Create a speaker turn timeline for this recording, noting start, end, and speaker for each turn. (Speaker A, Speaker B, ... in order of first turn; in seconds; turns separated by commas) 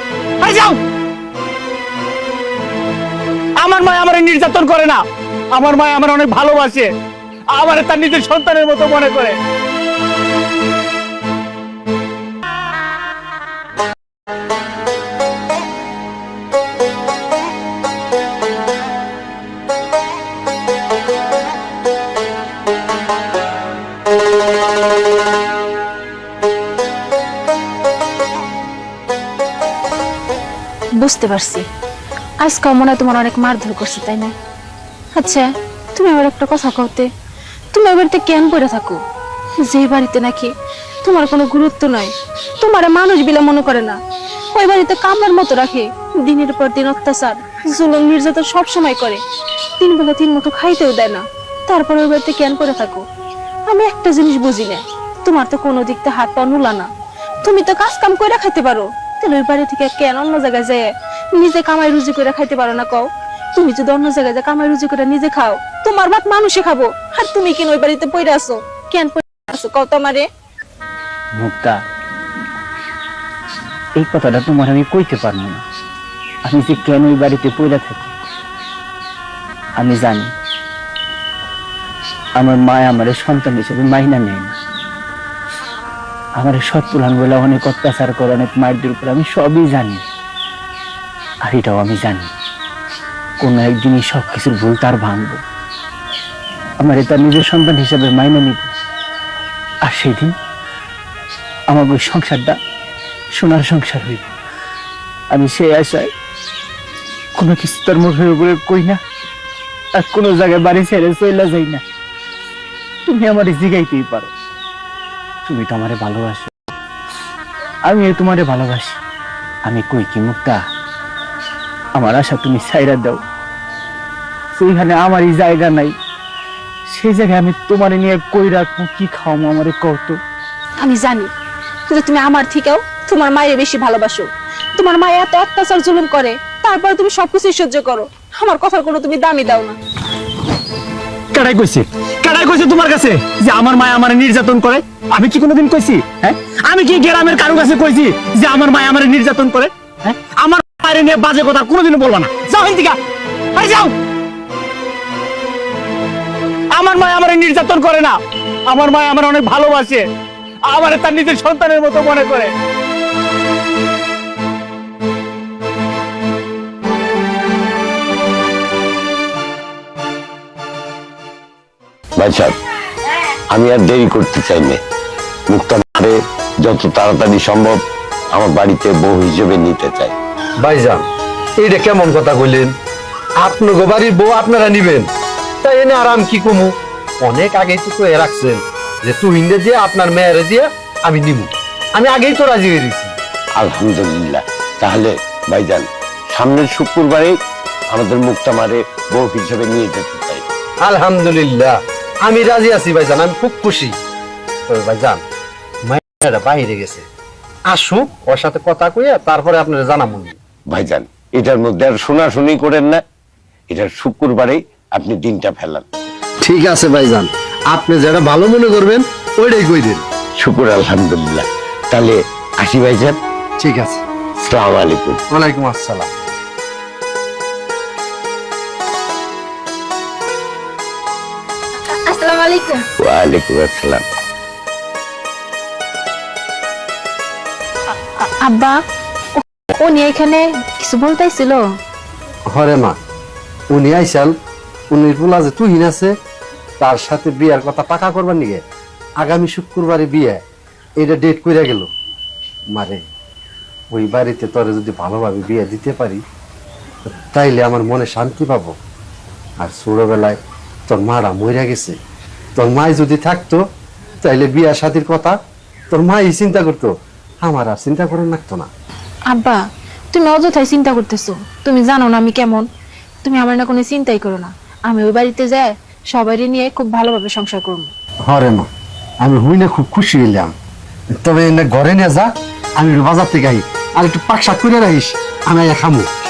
Speaker A: 0.4-0.8, Speaker A: 3.6-5.0, Speaker A: 5.5-6.9, Speaker A: 7.5-9.4, Speaker B: 31.0-31.6, Speaker B: 32.4-34.3, Speaker B: 35.1-37.1, Speaker B: 37.7-39.0, Speaker B: 39.6-40.5, Speaker B: 41.0-44.0, Speaker B: 44.5-49.2, Speaker B: 49.8-53.0, Speaker B: 53.7-56.9, Speaker B: 57.4-60.8, Speaker B: 61.4-70.2, Speaker A: 71.3-71.8, Speaker A: 74.0-75.6, Speaker A: 76.4-78.1, Speaker A: 79.8-80.3, Speaker A: 82.4-84.5, Speaker A: 86.4-90.0, Speaker A: 91.4-92.3, Speaker A: 93.4-95.4, Speaker A: 96.8-98.7, Speaker A: 99.8-100.3, Speaker A: 101.7-102.6, Speaker A: 103.3-104.3, Speaker A: 105.3-106.1, Speaker A: 107.3-109.0, Speaker A: 109.9-111.8, Speaker A: 113.0-114.3, Speaker A: 115.4-116.5, Speaker A: 117.9-119.0, Speaker A: 119.7-120.6, Speaker A: 122.0-123.2, Speaker A: 124.5-125.9, Speaker A: 126.9-130.2, Speaker B: 130.8-131.3, Speaker B: 131.9-139.8, Speaker A: 141.3-153.0, Speaker A: 153.5-153.9, Speaker A: 156.7-158.2, Speaker A: 158.7-160.1, Speaker A: 160.7-162.5, Speaker C: 172.2-172.6, Speaker C: 173.5-174.8, Speaker C: 175.5-180.1, Speaker D: 180.6-181.1, Speaker D: 181.6-182.7, Speaker D: 183.4-185.1, Speaker D: 185.6-193.1, Speaker C: 193.6-197.3, Speaker C: 197.9-200.4, Speaker D: 200.8-203.9, Speaker D: 204.7-205.2, Speaker D: 205.9-207.0, Speaker D: 207.7-210.3, Speaker C: 210.7-213.0, Speaker C: 213.7-215.8, Speaker D: 216.4-220.0, Speaker C: 220.4-223.2, Speaker D: 223.6-224.0, Speaker C: 224.4-225.2, Speaker D: 225.3-226.1, Speaker B: 231.9-232.8, Speaker C: 233.0-234.0, Speaker B: 237.9-238.8, Speaker B: 239.4-241.6, Speaker D: 242.5-242.9, Speaker D: 243.7-244.3, Speaker D: 244.9-246.1, Speaker D: 246.8-248.6, Speaker D: 249.2-250.4, Speaker D: 251.0-251.9, Speaker D: 252.7-253.0, Speaker D: 253.9-256.2, Speaker D: 257.3-258.7, Speaker D: 259.6-262.0, Speaker D: 262.6-263.6, Speaker D: 264.2-265.4, Speaker D: 265.9-266.9, Speaker D: 267.4-268.7, Speaker B: 269.3-269.6, Speaker B: 270.1-272.7, Speaker B: 273.2-277.9, Speaker D: 278.3-278.7, Speaker D: 279.2-280.5, Speaker D: 281.2-286.1